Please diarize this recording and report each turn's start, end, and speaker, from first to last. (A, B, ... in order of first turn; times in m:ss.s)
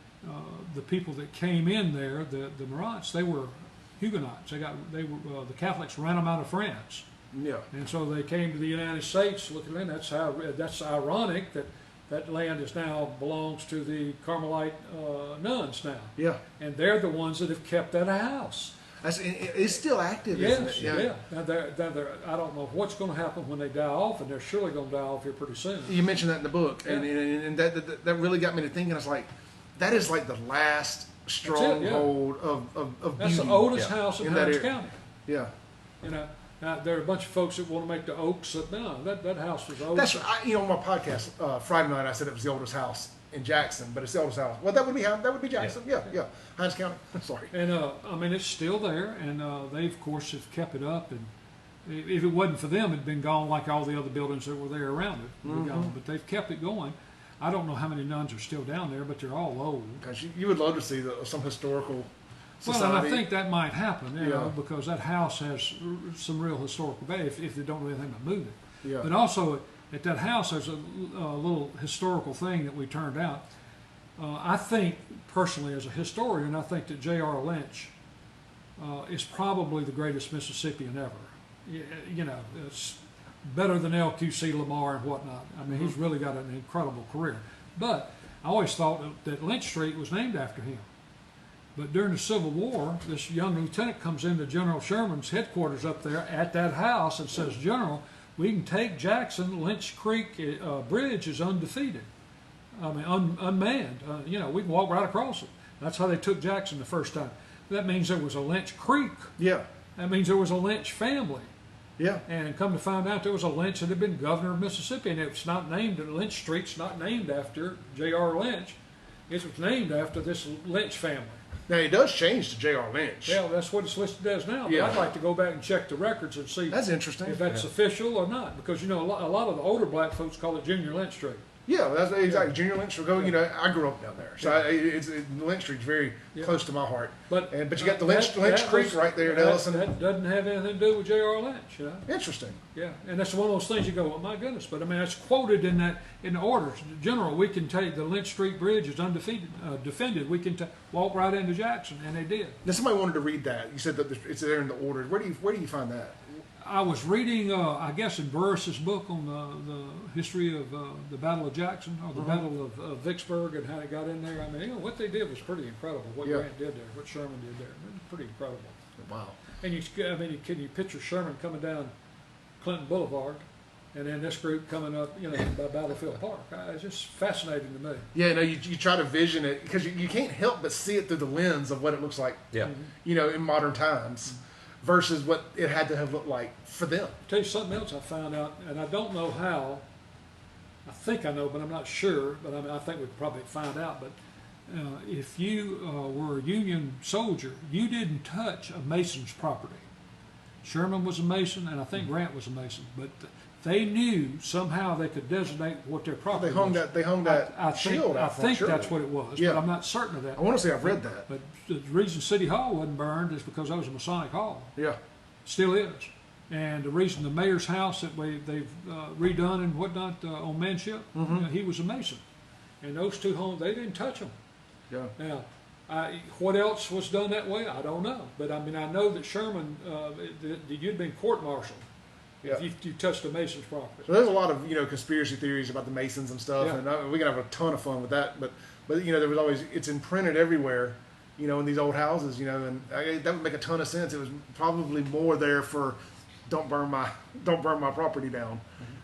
0:00.2-0:07.0 A
0:07.3-0:07.7 B
0:07.7-0:18.8 A
0:19.0-0:21.1 B
0:20.3-0:26.0 A
0:25.8-0:34.7 B
0:31.4-0:32.1 A
0:33.2-0:35.0 A
0:36.0-0:40.3 A
0:39.9-0:47.5 B
0:47.5-0:51.3 A
0:51.8-1:00.0 A
0:55.4-0:55.9 B
1:00.0-1:02.1 B
1:02.6-1:03.3 B
1:02.6-1:13.4 A
1:04.2-1:04.5 B
1:08.8-1:09.1 B
1:14.2-1:17.9 A
1:18.8-1:30.8 A
1:31.7-1:42.1 A
1:42.8-1:49.3 A
1:49.4-1:49.6 B
1:50.0-1:51.5 A
1:52.2-1:58.8 A
1:59.3-2:01.4 A
2:01.7-2:03.4 B
2:03.2-2:11.4 A
2:04.6-2:05.1 B
2:06.7-2:07.4 B
2:11.7-2:19.9 B
2:17.3-2:22.0 A
2:22.1-2:22.6 B
2:22.7-2:32.6 A
2:32.6-2:36.2 B
2:36.6-2:48.8 A
2:42.1-2:42.4 B
2:49.0-2:49.4 B
2:49.6-2:51.9 A
2:52.6-2:58.1 A
2:58.1-3:07.2 B
3:02.6-3:02.9 A
3:07.3-3:09.8 A
3:10.8-3:14.2 A
3:14.7-3:19.9 A
3:20.6-3:34.8 A
3:26.3-3:29.6 B
3:30.3-3:31.3 B
3:35.4-3:42.2 A
3:41.1-3:41.4 B
3:42.8-3:44.3 A
3:45.2-3:51.8 A
3:52.4-3:54.1 A
3:54.0-4:06.0 B
4:06.5-4:08.6 B